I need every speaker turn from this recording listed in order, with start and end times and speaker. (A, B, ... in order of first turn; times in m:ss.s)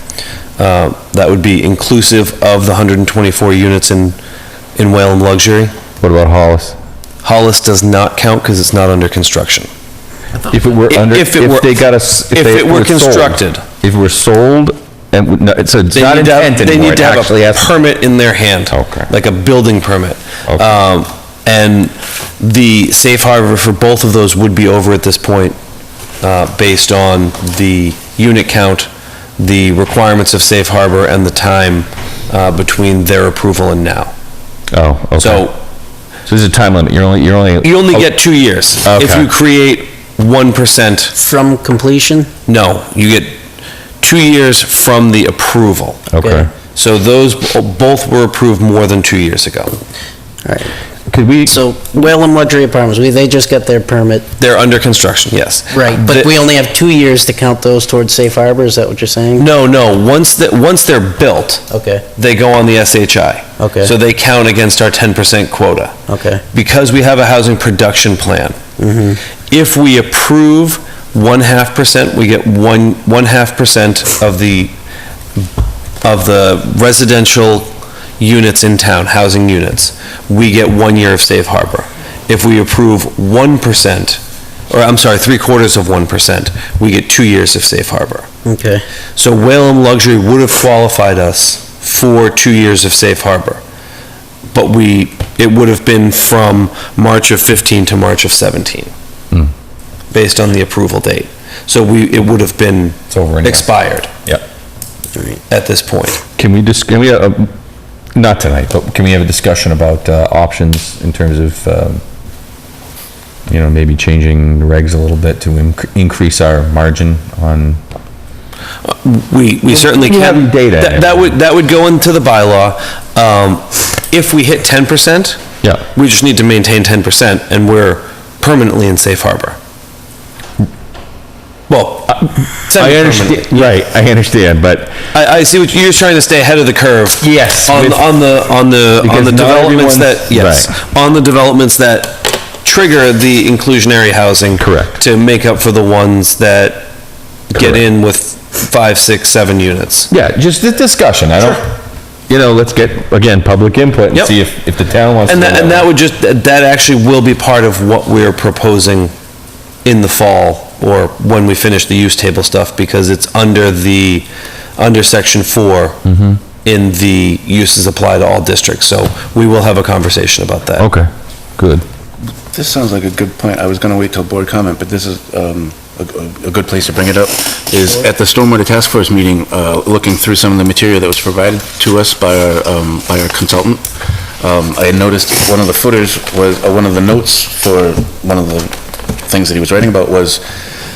0:00.6-0:04.2 A
0:04.8-0:05.7 A
0:06.0-0:06.8 B
0:07.2-0:09.7 A
0:10.5-0:17.7 B
0:10.9-0:13.6 A
0:15.9-0:25.6 A
0:18.7-0:19.1 B
0:20.5-0:20.7 B
0:26.2-0:34.1 A
0:34.7-0:35.5 B
0:35.2-0:35.6 A
0:36.3-0:38.2 B
0:37.6-0:41.2 A
0:38.8-0:39.3 B
0:41.2-0:42.3 C
0:42.5-0:43.3 A
0:44.0-0:46.1 A
0:46.1-0:46.5 B
0:46.7-0:49.8 A
0:50.4-0:50.7 C
0:51.1-0:51.6 B
0:51.5-0:54.2 C
0:54.4-0:56.3 A
0:55.7-0:59.4 C
0:59.4-1:01.6 A
1:01.7-1:02.0 C
1:02.2-1:06.0 A
1:03.6-1:03.9 C
1:06.1-1:06.4 C
1:06.5-1:08.6 A
1:08.8-1:09.2 C
1:09.5-1:14.7 A
1:16.0-1:28.3 A
1:28.4-1:28.8 C
1:29.2-1:33.6 A
1:34.5-1:38.9 A
1:40.1-1:44.1 A
1:43.1-1:43.7 B
1:45.5-1:46.2 A
1:46.4-1:47.5 B
1:48.1-1:52.0 B
1:53.5-1:57.8 B
1:58.8-2:09.6 A
1:59.7-2:01.4 B
2:11.7-2:13.7 A
2:12.1-2:15.0 B
2:15.1-2:26.9 A
2:17.2-2:18.1 B
2:19.0-2:20.7 B
2:24.6-2:25.0 B
2:27.5-2:30.1 A
2:30.1-2:35.9 B
2:35.3-2:39.1 A
2:39.8-2:44.2 A
2:44.8-2:46.0 A
2:46.0-2:46.4 B
2:46.6-2:50.9 A
2:50.8-2:51.8 B
2:52.5-3:03.8 D
3:04.4-3:10.4 D